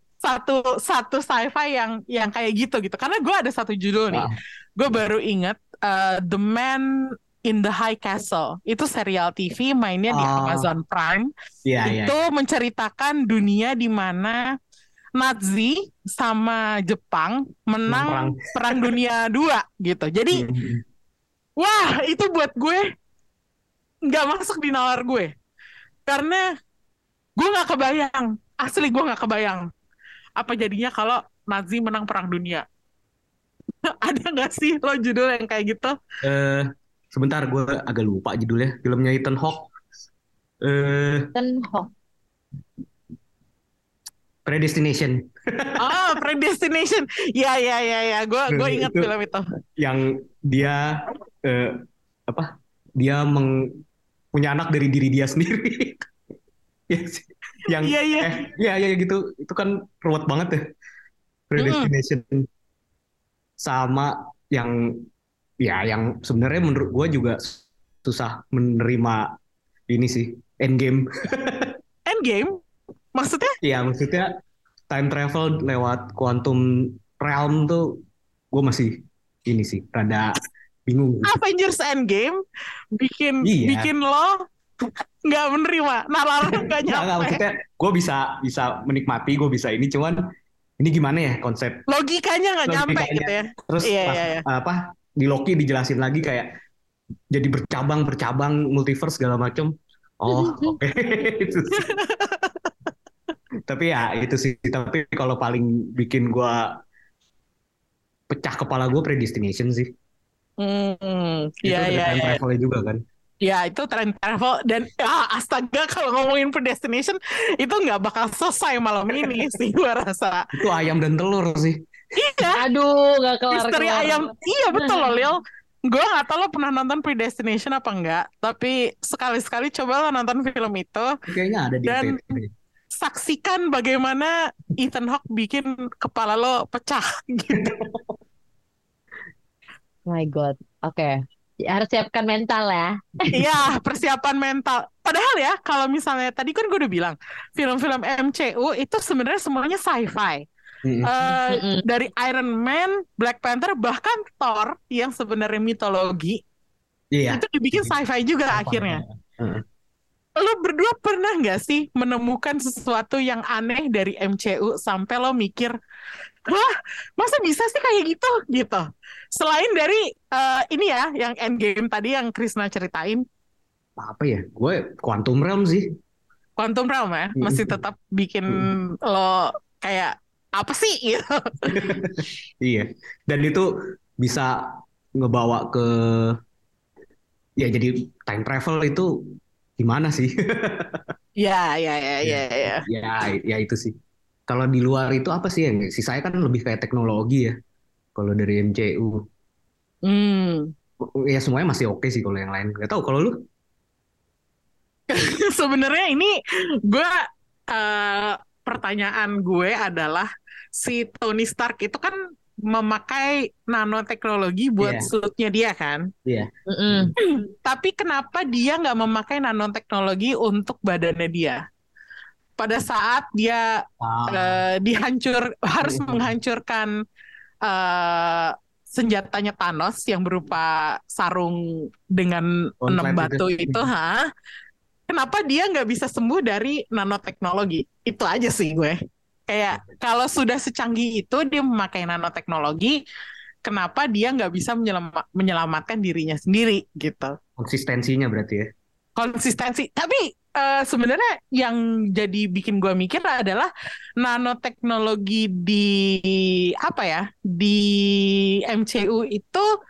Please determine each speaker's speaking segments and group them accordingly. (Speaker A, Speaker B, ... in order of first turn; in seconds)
Speaker A: 0.2-6.9, 7.5-11.3, 11.8-14.4, 15.2-20.4, 21.6-22.8, 24.1-25.3, 26.1-26.4, 27.4-29.7, 30.4-32.6, 33.9-36.0, 45.8-49.4, 57.8-58.4, 61.6-61.9, 72.1-72.6, 73.2-73.5, 81.2-82.4, 83.0-87.4, 91.9-94.5, 101.8-102.7, 110.6-112.4, 113.4-120.5, 122.2-122.6, 123.5-131.1, 131.9-132.4, 133.0-137.8, 143.3-150.4, 151.1-156.4, 157.3-159.0, 160.4-165.7, 166.4-173.2, 176.6-181.9, 191.4-192.8, 200.1-200.7, 205.1-206.3, 206.9-207.1, 207.7-212.2, 212.7-216.1, 217.2-221.6, 222.6-223.7, 224.3-226.9, 227.7-231.6, 232.1-234.2, 235.1-239.0, 239.5-243.0, 243.6-247.3, 249.2-259.7
Speaker B: 10.1-10.7, 11.7-12.2, 17.9-18.9, 20.3-20.8, 36.2-39.7, 40.6-41.3, 44.5-46.1, 48.5-49.1, 49.8-53.5, 54.3-56.1, 56.9-60.6, 61.5-62.5, 63.6-64.8, 65.6-69.3, 69.9-71.7, 73.6-74.3, 74.9-77.9, 78.5-81.3, 83.4-83.9, 86.5-90.2, 90.8-91.8, 92.7-96.5, 97.3-101.9, 103.7-106.7, 108.3-109.9, 111.7-113.0, 120.5-121.8, 131.3-132.5, 137.6-138.0, 150.8-151.3, 157.1-157.9, 158.5-159.6, 174.0-175.9, 177.4-177.8, 181.7-183.7, 184.2-186.4, 187.6-189.1, 189.8-191.1, 192.2-193.9, 194.5-197.6, 198.2-199.2, 201.0-203.3, 214.8-215.1, 216.3-217.1, 224.0-224.6, 225.8-226.3, 232.8-233.9, 247.6-248.7
Speaker C: 41.4-41.9, 122.5-124.2, 124.7-125.1, 140.1-143.4, 151.5-151.8, 216.7-217.1